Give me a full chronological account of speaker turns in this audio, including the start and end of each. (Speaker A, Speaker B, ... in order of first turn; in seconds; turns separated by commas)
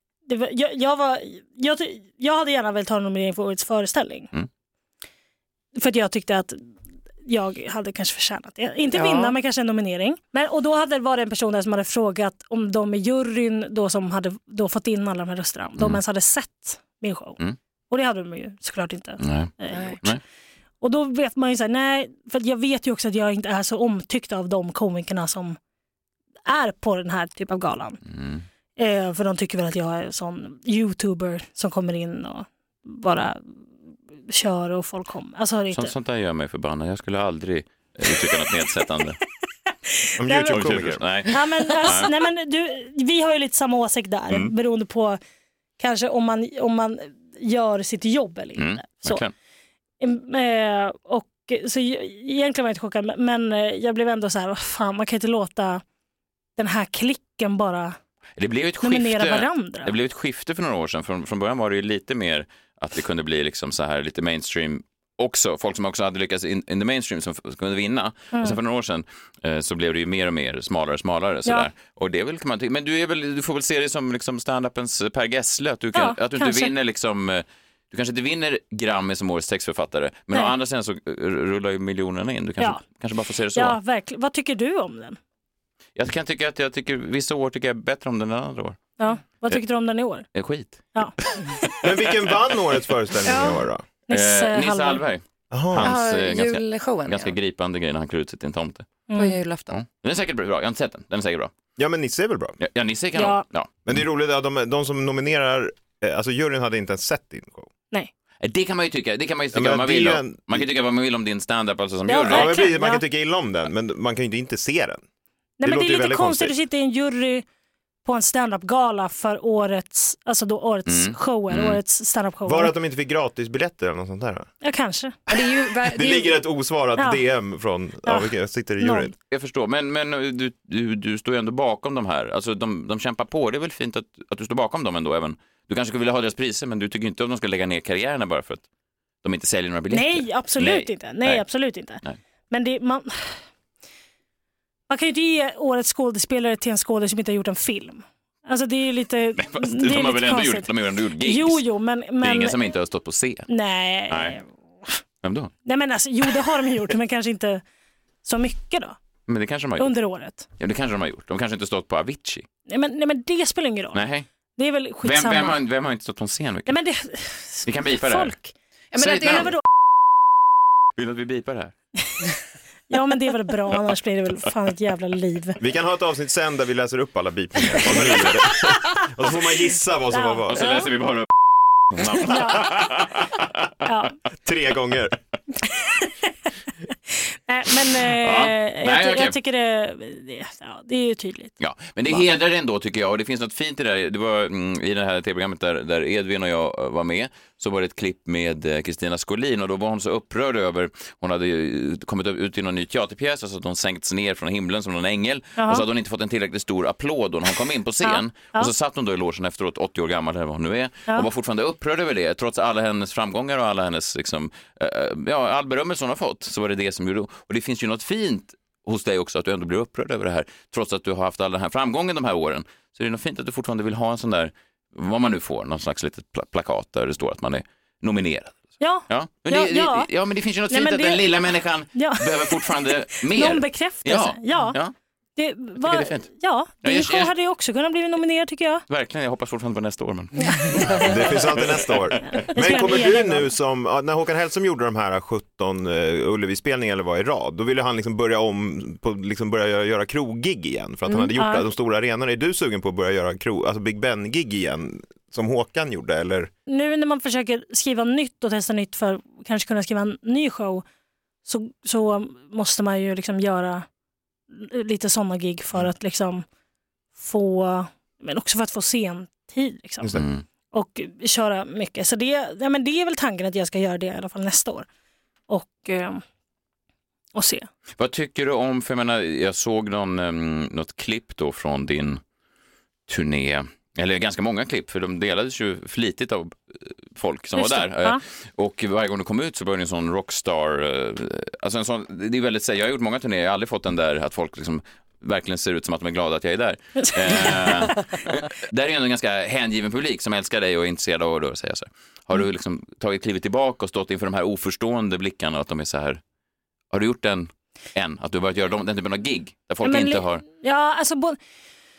Speaker A: 0.2-4.3, Speaker A: 5.7-6.7, Speaker A: 7.2-17.4, Speaker B: 8.9-9.3, Speaker A: 17.9-20.2, Speaker C: 19.2-20.2, Speaker B: 19.7-20.0, Speaker A: 20.8-25.6, Speaker A: 26.4-28.0, Speaker C: 28.1-28.4, Speaker A: 28.8-33.6, Speaker A: 34.3-35.9, Speaker C: 35.7-39.2, Speaker A: 40.0-40.6, Speaker D: 40.2-41.3, Speaker C: 40.5-42.1, Speaker A: 41.3-45.2, Speaker A: 45.8-49.2, Speaker C: 48.5-49.3, Speaker A: 50.0-55.8, Speaker A: 56.6-58.0, Speaker C: 58.4-83.8, Speaker A: 58.8-59.9, Speaker A: 75.9-76.7, Speaker A: 83.5-85.2, Speaker C: 86.0-88.8, Speaker A: 89.0-90.2, Speaker C: 90.3-90.9, Speaker D: 91.8-93.8, Speaker A: 93.3-93.5, Speaker A: 94.1-95.0, Speaker C: 94.1-98.9, Speaker D: 95.5-96.0, Speaker B: 95.8-97.3, Speaker A: 99.1-99.4, Speaker B: 99.1-99.7, Speaker C: 99.7-101.5, Speaker D: 101.8-102.6, Speaker C: 102.6-104.0, Speaker A: 103.1-103.4, Speaker D: 103.8-107.7, Speaker C: 108.4-112.6, Speaker D: 109.5-110.7, Speaker A: 112.1-113.0, Speaker D: 112.2-115.0, Speaker A: 115.6-117.4, Speaker D: 115.6-116.5, Speaker A: 118.0-122.7, Speaker C: 120.9-121.8, Speaker D: 122.5-124.5, Speaker A: 124.6-125.2, Speaker B: 125.3-126.4, Speaker D: 125.3-129.1, Speaker A: 128.0-129.1, Speaker C: 129.3-138.6, Speaker C: 139.2-141.4, Speaker A: 139.9-143.4, Speaker A: 144.9-150.7, Speaker C: 149.4-151.6, Speaker A: 151.2-152.6, Speaker C: 152.2-153.5, Speaker A: 153.5-154.9, Speaker C: 154.1-154.4, Speaker C: 155.2-155.5, Speaker A: 155.6-157.6, Speaker A: 158.2-159.0, Speaker C: 159.3-159.9, Speaker A: 159.8-160.4, Speaker C: 160.6-162.4, Speaker A: 162.7-164.0, Speaker C: 163.9-164.2, Speaker A: 164.6-165.6, Speaker C: 165.0-166.8, Speaker A: 166.7-168.5, Speaker C: 167.7-168.3, Speaker B: 168.9-169.6, Speaker C: 168.9-169.5, Speaker A: 169.3-169.6, Speaker C: 170.9-171.7, Speaker A: 172.9-175.6, Speaker D: 175.6-180.7, Speaker C: 177.8-178.7, Speaker A: 180.1-180.9, Speaker C: 180.5-181.3, Speaker C: 181.9-183.3, Speaker A: 182.2-182.7, Speaker A: 183.8-184.2, Speaker D: 184.4-185.2, Speaker A: 185.8-186.1, Speaker A: 187.1-191.5, Speaker C: 188.1-189.3, Speaker C: 191.6-234.9, Speaker A: 205.6-205.8, Speaker A: 208.0-208.7, Speaker A: 228.8-230.1, Speaker A: 230.7-231.3, Speaker A: 231.9-234.8, Speaker A: 235.3-238.8, Speaker C: 235.8-236.3, Speaker C: 236.8-237.3, Speaker C: 238.9-242.5, Speaker D: 241.0-256.5, Speaker A: 242.3-243.5, Speaker A: 251.3-251.7, Speaker A: 256.7-260.8, Speaker A: 261.4-263.9, Speaker A: 264.5-266.4, Speaker A: 267.1-270.1, Speaker C: 270.1-270.4, Speaker A: 270.7-274.9, Speaker A: 275.5-276.2, Speaker A: 277.3-277.7, Speaker C: 278.0-282.2, Speaker C: 283.1-306.2, Speaker A: 287.6-288.2, Speaker A: 297.0-298.0, Speaker C: 306.9-310.4, Speaker A: 309.8-311.4